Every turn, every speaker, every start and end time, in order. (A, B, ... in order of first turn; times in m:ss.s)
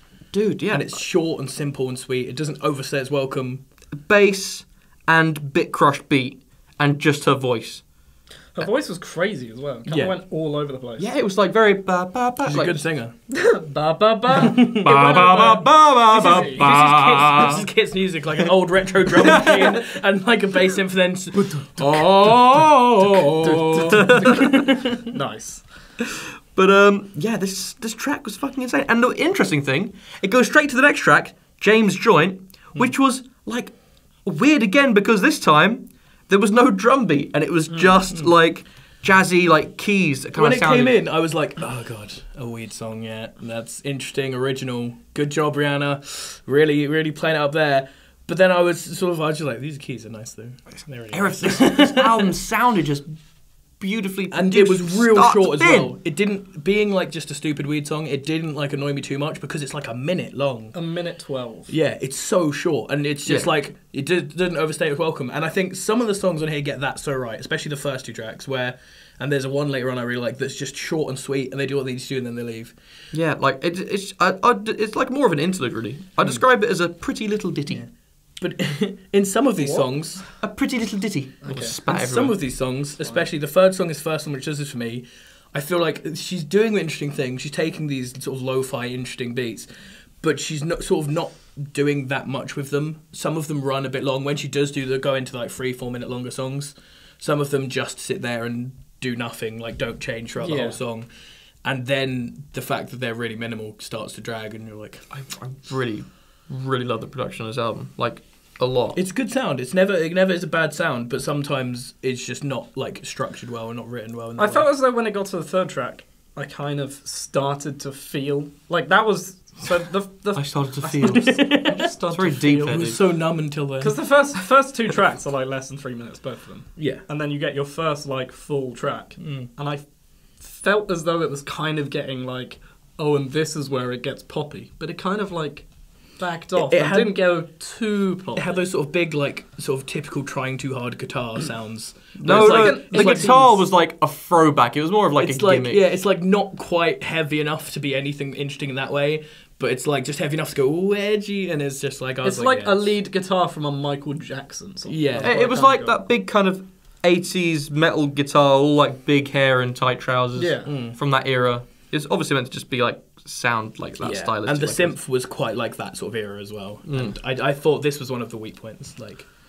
0:00.3-0:01.0 A
0:00.7-0:03.6 B
0:04.0-0:07.9 A
0:08.5-0:11.1 C
0:09.9-0:10.2 B
0:11.0-0:12.8 A
0:12.4-0:13.1 B
0:13.3-0:16.7 C
0:14.3-0:15.2 B
0:14.8-0:17.6 A
0:16.3-0:25.0 B
0:19.2-0:19.8 A
0:21.8-0:24.6 A
0:23.6-0:25.7 C
0:26.5-0:41.0 A
0:37.7-0:38.0 C
0:40.4-0:52.3 B
0:51.1-0:56.0 A
0:54.3-1:00.8 B
1:00.7-1:01.7 C
1:01.7-1:12.7 B
1:03.2-1:03.5 A
1:13.1-1:17.8 A
1:17.7-1:20.3 B
1:19.6-1:20.3 C
1:20.4-1:22.4 A
1:21.4-1:21.8 C
1:21.8-1:41.1 B
1:23.0-1:23.2 C
1:40.4-1:40.8 C
1:41.6-1:45.1 B
1:45.1-1:49.0 A
1:48.9-1:54.7 B
1:54.4-2:02.8 C
2:00.3-2:03.0 A
2:01.1-2:01.8 B
2:02.7-2:04.1 B
2:03.8-2:18.6 C
2:06.8-2:07.0 B
2:09.2-2:09.5 B
2:16.6-2:17.3 B
2:18.3-2:23.4 B
2:22.2-2:25.8 A
2:22.2-2:23.6 C
2:25.2-2:33.0 B
2:32.2-2:36.0 C
2:34.9-2:35.3 B
2:35.2-2:45.0 A
2:40.3-2:40.7 C
2:40.6-2:41.0 B
2:44.0-2:49.3 B
2:46.8-2:47.1 A